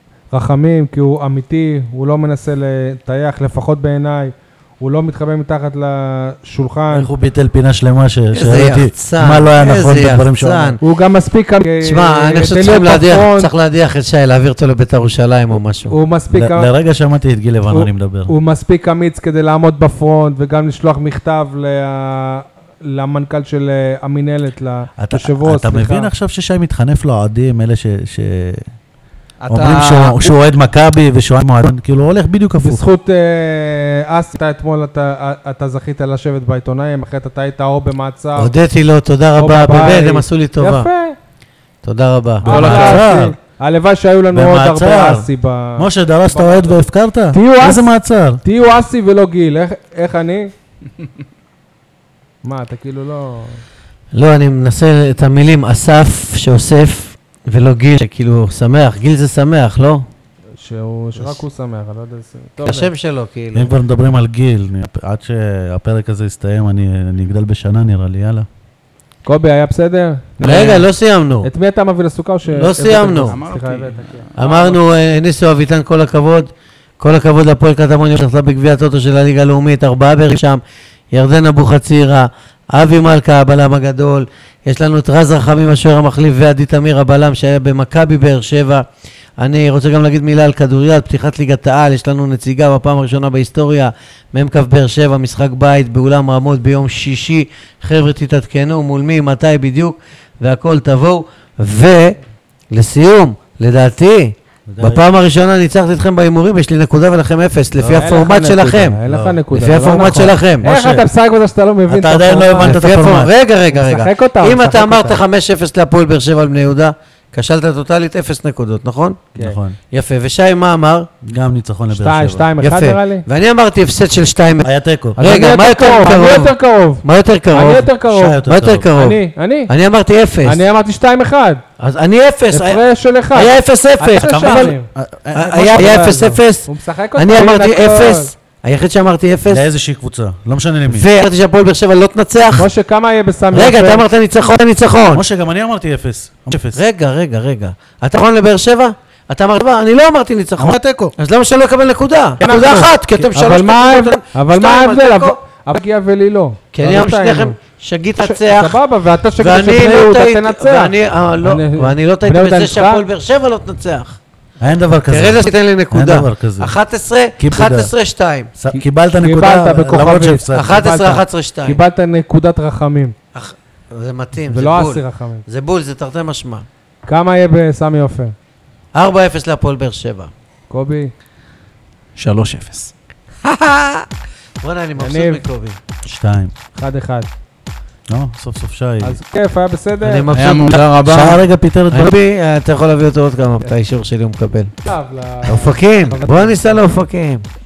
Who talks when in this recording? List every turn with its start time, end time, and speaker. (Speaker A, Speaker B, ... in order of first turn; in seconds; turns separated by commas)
Speaker A: 0.3-7.1, Speaker B: 6.9-10.8, Speaker C: 8.3-10.8, Speaker A: 10.8-13.5, Speaker C: 11.8-15.9, Speaker A: 15.9-16.7, Speaker B: 16.3-18.3, Speaker A: 17.7-26.1, Speaker B: 25.0-28.6, Speaker D: 29.4-30.3, Speaker B: 29.5-32.8, Speaker A: 32.6-38.5, Speaker C: 38.4-40.9, Speaker A: 39.4-41.1, Speaker C: 41.8-42.6, Speaker B: 42.4-43.4, Speaker A: 42.4-46.8, Speaker D: 42.5-43.0, Speaker B: 44.3-48.4, Speaker A: 47.3-47.9, Speaker A: 48.4-50.5, Speaker A: 52.4-53.6, Speaker C: 54.1-60.1, Speaker A: 60.6-62.9, Speaker C: 62.6-63.7, Speaker B: 63.5-68.5, Speaker A: 69.2-70.9, Speaker C: 70.4-71.5, Speaker A: 71.4-74.2, Speaker C: 72.5-73.3, Speaker D: 73.3-74.8, Speaker C: 74.4-88.8, Speaker C: 89.4-102.2, Speaker C: 102.7-109.0, Speaker B: 104.7-105.0, Speaker B: 107.7-108.2, Speaker A: 107.9-112.8, Speaker B: 109.0-109.4, Speaker C: 109.5-110.7, Speaker B: 110.6-111.1, Speaker B: 111.9-113.3, Speaker C: 112.6-119.2, Speaker A: 113.7-115.2, Speaker B: 119.3-119.8, Speaker C: 119.9-121.1, Speaker B: 121.2-122.5, Speaker A: 121.9-123.2, Speaker C: 122.6-127.9, Speaker B: 124.6-125.2, Speaker A: 125.2-127.0, Speaker A: 127.5-128.4, Speaker B: 128.1-128.9, Speaker C: 128.5-130.6, Speaker A: 128.9-129.7, Speaker A: 130.4-131.6, Speaker C: 131.8-132.8, Speaker A: 132.5-134.9, Speaker C: 133.3-134.7, Speaker B: 134.2-136.2, Speaker C: 135.3-139.6, Speaker A: 135.5-138.3, Speaker B: 139.5-141.1, Speaker C: 140.9-142.7, Speaker A: 142.6-144.0, Speaker C: 143.5-145.2, Speaker B: 145.1-146.8, Speaker C: 146.7-155.3, Speaker B: 150.6-151.1, Speaker A: 152.4-157.6, Speaker C: 156.7-158.8, Speaker A: 158.2-163.0, Speaker C: 159.4-164.2, Speaker B: 164.6-166.7, Speaker C: 165.1-168.5, Speaker B: 167.4-167.9, Speaker B: 168.6-170.9, Speaker A: 168.7-173.1, Speaker C: 170.5-171.8, Speaker C: 173.3-176.7, Speaker A: 174.5-175.4, Speaker A: 177.1-178.3, Speaker C: 178.9-180.3, Speaker A: 180.7-181.1, Speaker D: 182.2-182.9, Speaker C: 183.4-184.1, Speaker C: 184.6-185.8, Speaker A: 185.0-185.4, Speaker B: 186.0-186.5, Speaker A: 186.7-187.3, Speaker B: 188.1-189.2, Speaker A: 189.0-190.2, Speaker C: 190.0-190.8, Speaker D: 190.3-191.4, Speaker B: 191.0-192.1, Speaker C: 191.9-194.7, Speaker A: 194.8-196.9, Speaker C: 195.4-197.4